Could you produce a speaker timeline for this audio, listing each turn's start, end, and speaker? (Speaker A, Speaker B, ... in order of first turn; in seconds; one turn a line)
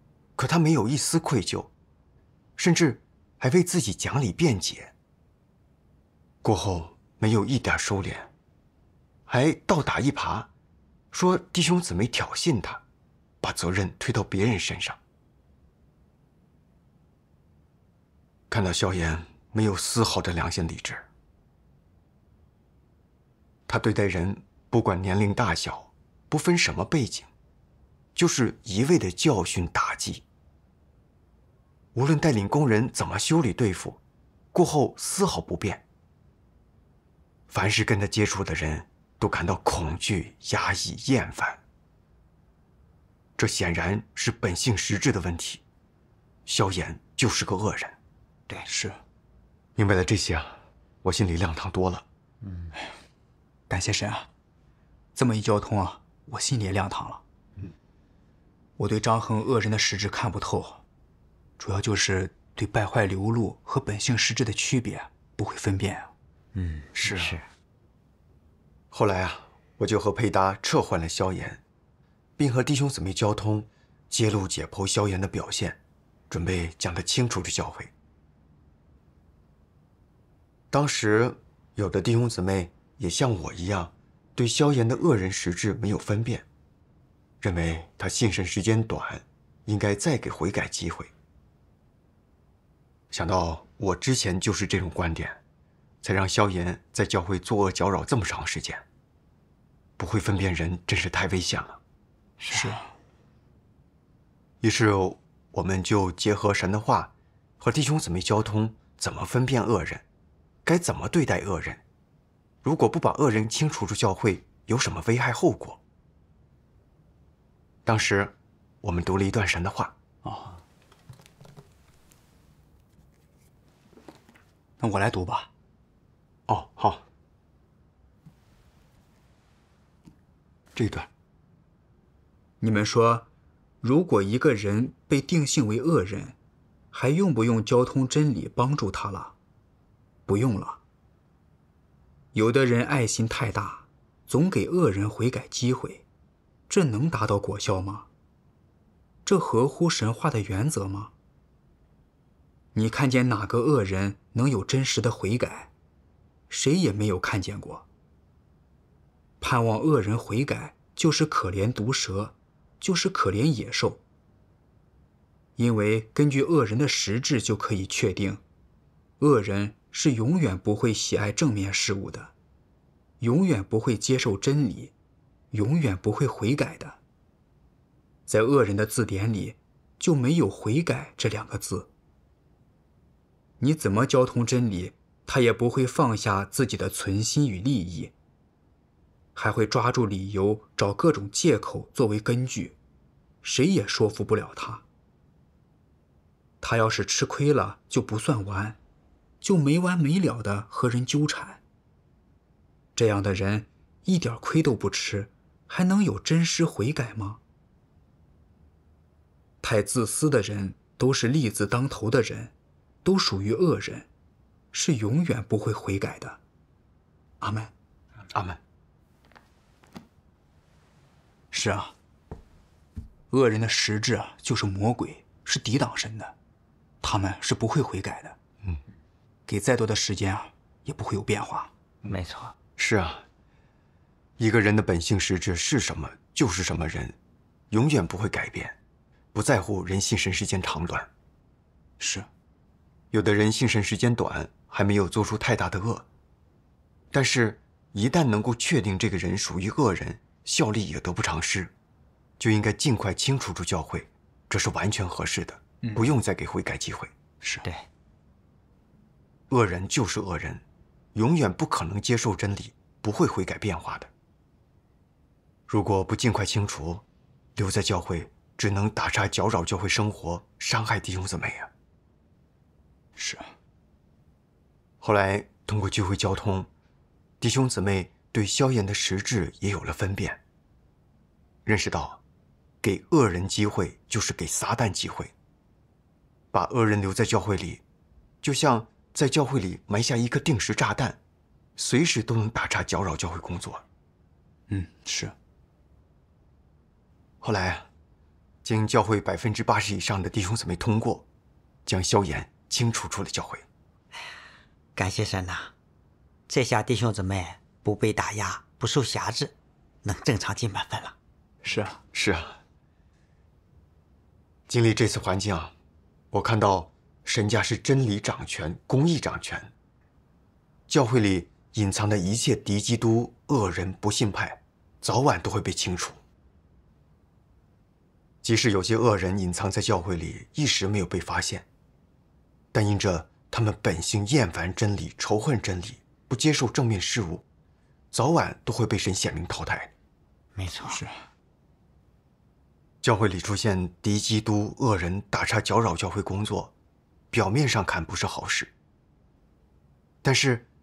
Speaker A: 0.4-1.7
Speaker A: 2.6-4.9
Speaker A: 6.4-8.3
Speaker A: 9.3-10.5
Speaker A: 11.1-12.8
Speaker A: 13.4-15.0
Speaker A: 18.5-21.0
Speaker A: 23.7-27.3
Speaker A: 28.1-30.2
Speaker A: 31.9-34.0
Speaker A: 34.5-35.8
Speaker A: 37.5-41.6
Speaker A: 43.4-45.6
Speaker A: 46.5-48.0
Speaker B: 48.6-49.0
Speaker A: 49.8-52.0
Speaker C: 52.4-52.7
Speaker B: 53.7-54.3
Speaker B: 55.1-57.2
Speaker B: 58.8-60.8
Speaker B: 61.6-66.1
Speaker C: 66.5-67.5
Speaker A: 66.9-67.4
Speaker A: 68.9-71.6
Speaker A: 72.4-75.8
Speaker A: 76.3-77.9
Speaker A: 80.7-86.4
Speaker A: 87.4-91.1
Speaker A: 93.1-95.4
Speaker A: 96.0-98.8
Speaker A: 100.0-101.8
Speaker B: 102.5-102.9
Speaker C: 102.5-102.8
Speaker A: 104.6-110.0
Speaker A: 110.6-111.8
Speaker A: 112.6-115.8
Speaker A: 117.8-119.9
Speaker B: 120.2-120.6
Speaker B: 124.8-125.5
Speaker A: 126.5-127.0
Speaker A: 130.7-131.1
Speaker B: 132.6-133.3
Speaker B: 133.8-136.3
Speaker B: 136.9-139.3
Speaker B: 140.3-140.8
Speaker B: 142.3-146.0
Speaker B: 146.7-148.1
Speaker B: 149.2-151.1
Speaker B: 152.7-155.7
Speaker B: 156.5-157.8
Speaker B: 159.4-164.0
Speaker B: 165.6-168.4
Speaker B: 169.2-172.3
Speaker B: 173.2-174.9
Speaker B: 175.5-177.0
Speaker B: 178.3-181.9
Speaker B: 183.6-188.1
Speaker B: 189.3-192.7
Speaker B: 193.4-194.8
Speaker B: 196.6-198.8
Speaker B: 199.4-201.6
Speaker B: 202.9-207.4
Speaker B: 209.6-212.5
Speaker B: 213.0-214.1
Speaker B: 214.7-216.4
Speaker B: 217.4-217.7
Speaker A: 218.3-218.6
Speaker B: 221.5-221.9
Speaker B: 223.3-226.3
Speaker B: 227.0-228.3
Speaker B: 229.5-231.7
Speaker C: 232.0-232.5
Speaker A: 232.8-233.2
Speaker A: 234.4-237.2
Speaker A: 237.7-238.8
Speaker A: 239.3-241.1
Speaker B: 242.0-242.3
Speaker A: 243.1-246.1
Speaker A: 247.1-251.7
Speaker A: 252.4-257.1
Speaker B: 255.8-256.1
Speaker B: 257.4-257.7
Speaker A: 259.5-260.6
Speaker A: 261.1-264.1
Speaker A: 265.7-267.0
Speaker A: 267.6-271.7
Speaker B: 273.2-273.5
Speaker A: 275.0-276.7
Speaker A: 277.4-280.4
Speaker A: 281.6-282.2
Speaker A: 282.8-285.3
Speaker A: 286.5-287.8
Speaker A: 288.4-291.2
Speaker A: 291.8-293.8
Speaker B: 294.7-295.3
Speaker A: 297.4-297.9
Speaker A: 298.6-301.2
Speaker A: 301.9-303.6
Speaker C: 304.9-305.7
Speaker C: 306.5-311.1
Speaker B: 311.6-312.0
Speaker A: 312.1-312.6
Speaker A: 314.7-315.7
Speaker A: 316.3-319.7
Speaker A: 320.9-326.2
Speaker A: 328.4-331.6
Speaker A: 332.7-337.4
Speaker A: 338.1-339.9
Speaker C: 340.6-341.0
Speaker B: 340.9-341.1
Speaker A: 343.0-346.7
Speaker A: 347.3-348.7
Speaker A: 350.2-350.6